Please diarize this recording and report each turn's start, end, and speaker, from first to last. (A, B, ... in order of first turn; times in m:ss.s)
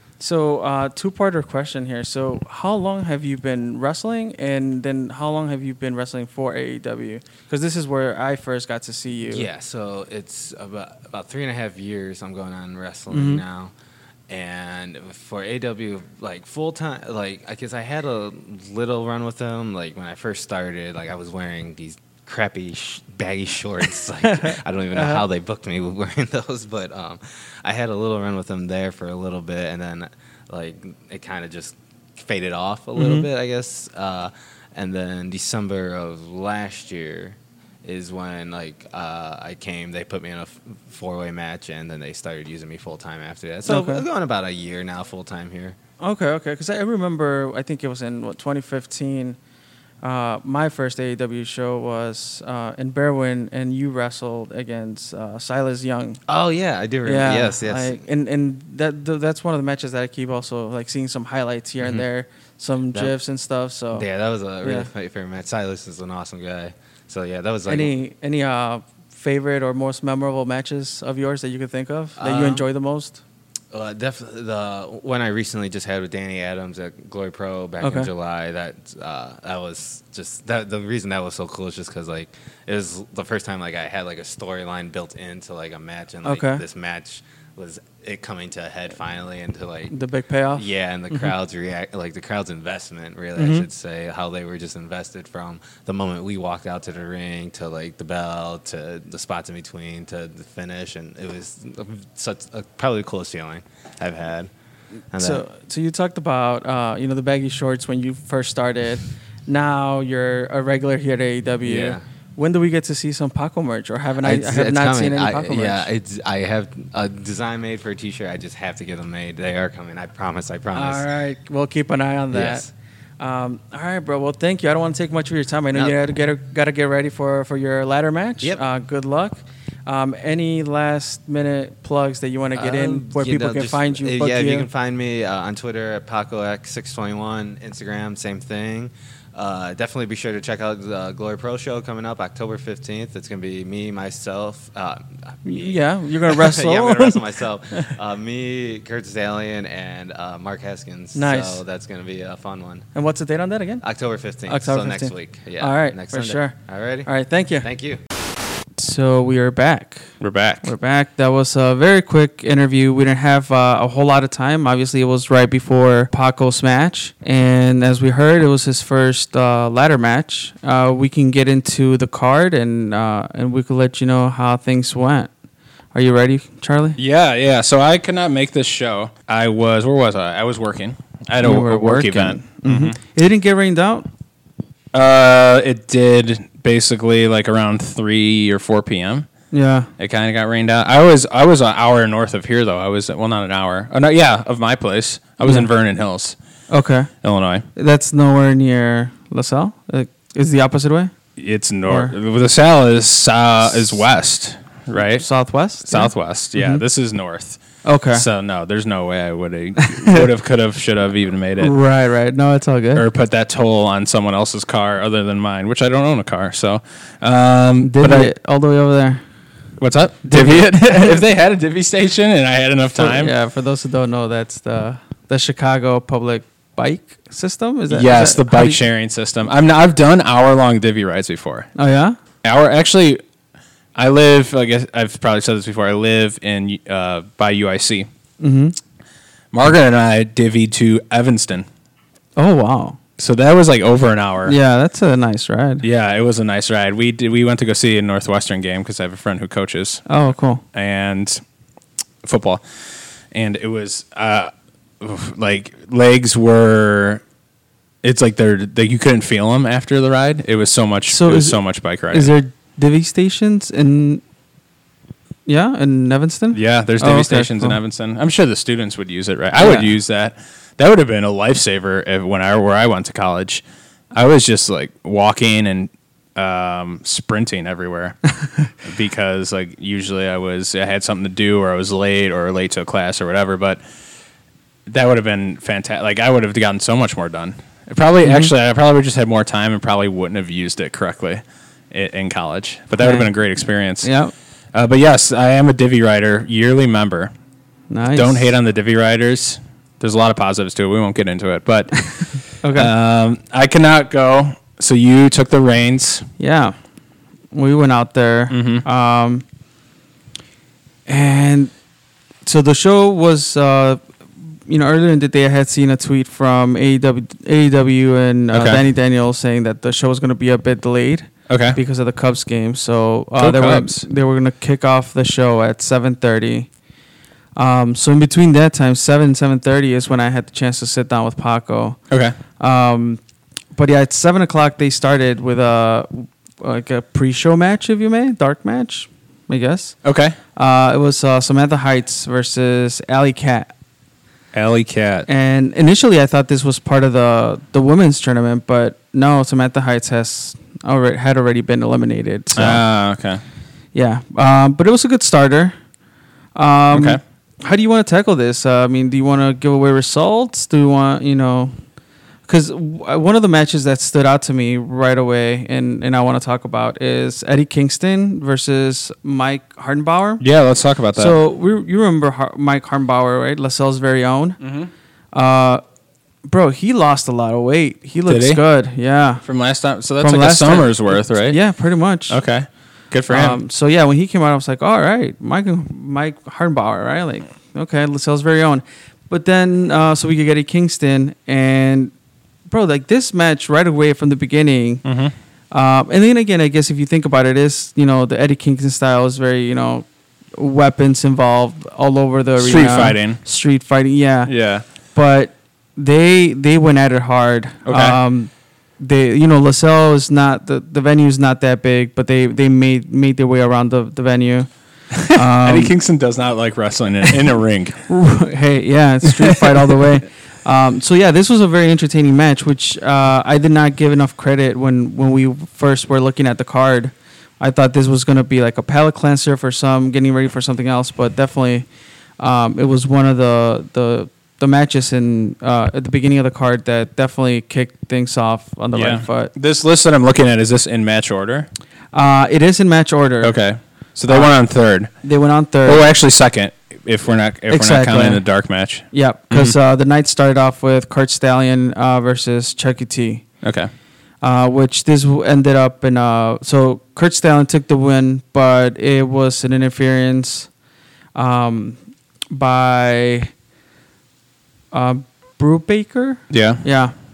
0:00.2-0:09.5 A
0:09.3-0:13.7 B
0:13.1-0:13.4 A
0:14.3-0:45.8 B
0:24.2-0:25.2 A
0:33.0-0:33.2 A
0:43.6-0:44.0 A
0:46.0-0:49.4 A
0:50.0-0:56.2 A
0:56.3-0:58.0 B
0:57.0-1:04.0 A
1:03.9-1:07.9 B
1:04.6-1:04.9 A
1:07.7-1:13.2 A
1:12.2-1:12.6 B
1:13.7-1:29.9 B
1:17.8-1:18.1 A
1:26.2-1:26.6 A
1:29.9-1:31.3 A
1:30.5-1:44.5 B
1:33.4-1:33.6 A
1:45.1-1:45.4 B
1:45.2-1:55.9 A
1:51.6-1:52.0 B
1:54.2-2:01.0 B
2:00.7-2:02.6 A
2:02.3-2:02.7 B
2:03.2-2:14.7 A
2:12.5-2:25.7 B
2:25.4-2:27.9 A
2:26.2-2:32.9 B
2:31.1-2:31.6 A
2:32.9-2:33.8 A
2:33.8-2:37.1 B
2:34.5-2:37.7 A
2:37.6-2:38.0 B
2:38.8-2:40.1 A
2:40.2-2:40.7 C
2:40.6-2:55.3 A
2:55.9-2:57.0 A
2:57.0-3:03.0 C
3:01.4-3:04.1 A
3:04.9-3:09.3 C
3:09.5-3:09.9 A
3:10.0-3:16.4 C
3:16.7-3:17.1 A
3:17.2-3:17.6 C
3:17.7-3:21.1 A
3:21.4-3:25.3 C
3:21.8-3:22.1 A
3:25.2-3:26.8 A
3:25.8-3:27.6 C
3:27.8-3:28.2 A
3:28.1-3:31.7 C
3:29.8-3:30.2 A
3:31.6-3:33.0 A
3:32.9-3:38.3 C
3:37.8-3:39.2 A
3:39.8-3:43.3 C
3:40.3-3:41.2 A
3:42.9-3:48.8 A
3:47.9-3:51.7 C
3:51.8-3:52.2 A
3:52.4-3:53.2 C
3:53.9-3:58.1 C
3:58.4-3:58.8 A
3:59.5-4:01.6 C
4:02.4-4:03.0 A
4:03.2-4:04.5 C
4:04.4-4:05.8 A
4:05.8-4:10.0 C
4:10.1-4:10.6 A
4:10.7-4:11.4 C
4:12.2-4:12.6 C
4:13.3-4:17.2 C
4:18.0-4:22.3 C
4:21.1-4:21.6 A
4:22.1-4:24.2 A
4:25.4-4:27.8 A
4:26.5-4:33.6 C
4:29.6-4:29.9 A
4:34.1-4:38.2 C
4:38.8-4:43.8 C
4:44.9-4:54.1 C
4:48.2-4:48.5 A
4:53.0-4:53.3 A
4:54.0-4:54.3 A
4:54.7-4:57.3 C
4:57.9-4:58.5 A
4:58.1-5:06.3 C
5:02.6-5:02.9 A
5:06.4-5:06.7 A
5:07.5-5:09.4 A
5:08.5-5:08.8 C
5:11.1-5:11.7 A
5:12.4-5:14.0 A
5:14.7-5:26.7 A
5:18.5-5:18.8 C
5:21.5-5:21.8 C
5:23.4-5:24.0 C
5:27.6-5:32.0 A
5:32.1-5:32.4 C
5:32.6-5:33.2 A
5:33.8-5:40.0 A
5:40.0-5:40.4 C
5:40.6-5:43.7 A
5:44.5-5:45.3 C
5:45.3-5:52.8 A
5:52.5-5:53.4 C
5:53.9-5:55.8 A
5:56.6-6:01.7 A
5:56.9-5:57.2 C
6:02.5-6:10.4 A
6:10.4-6:11.4 C
6:11.2-6:14.6 A
6:14.6-6:14.9 C
6:15.3-6:15.8 A
6:16.4-6:19.4 A
6:18.3-6:18.6 C
6:19.4-6:21.6 C
6:20.2-6:22.4 A
6:22.3-6:23.6 C
6:23.3-6:32.1 A
6:32.7-6:35.0 A
6:35.0-6:35.3 C
6:35.7-6:40.0 A
6:40.6-6:44.5 A
6:42.6-6:43.4 C
6:44.4-6:44.8 C
6:45.1-6:54.7 A
6:47.8-6:48.2 C
6:55.1-6:58.0 C
6:55.3-6:55.9 A
6:58.1-7:11.8 A
6:59.2-7:00.0 C
7:12.4-7:19.5 A
7:18.9-7:21.7 C
7:22.1-7:23.5 A
7:23.4-7:25.1 C
7:25.2-7:26.1 A
7:25.8-7:29.8 C
7:27.7-7:28.4 A
7:29.1-7:33.4 A
7:33.6-7:33.9 C
7:34.4-7:40.7 A
7:41.3-7:42.0 A
7:42.5-7:43.5 A
7:44.9-7:47.1 A
7:46.5-7:46.8 C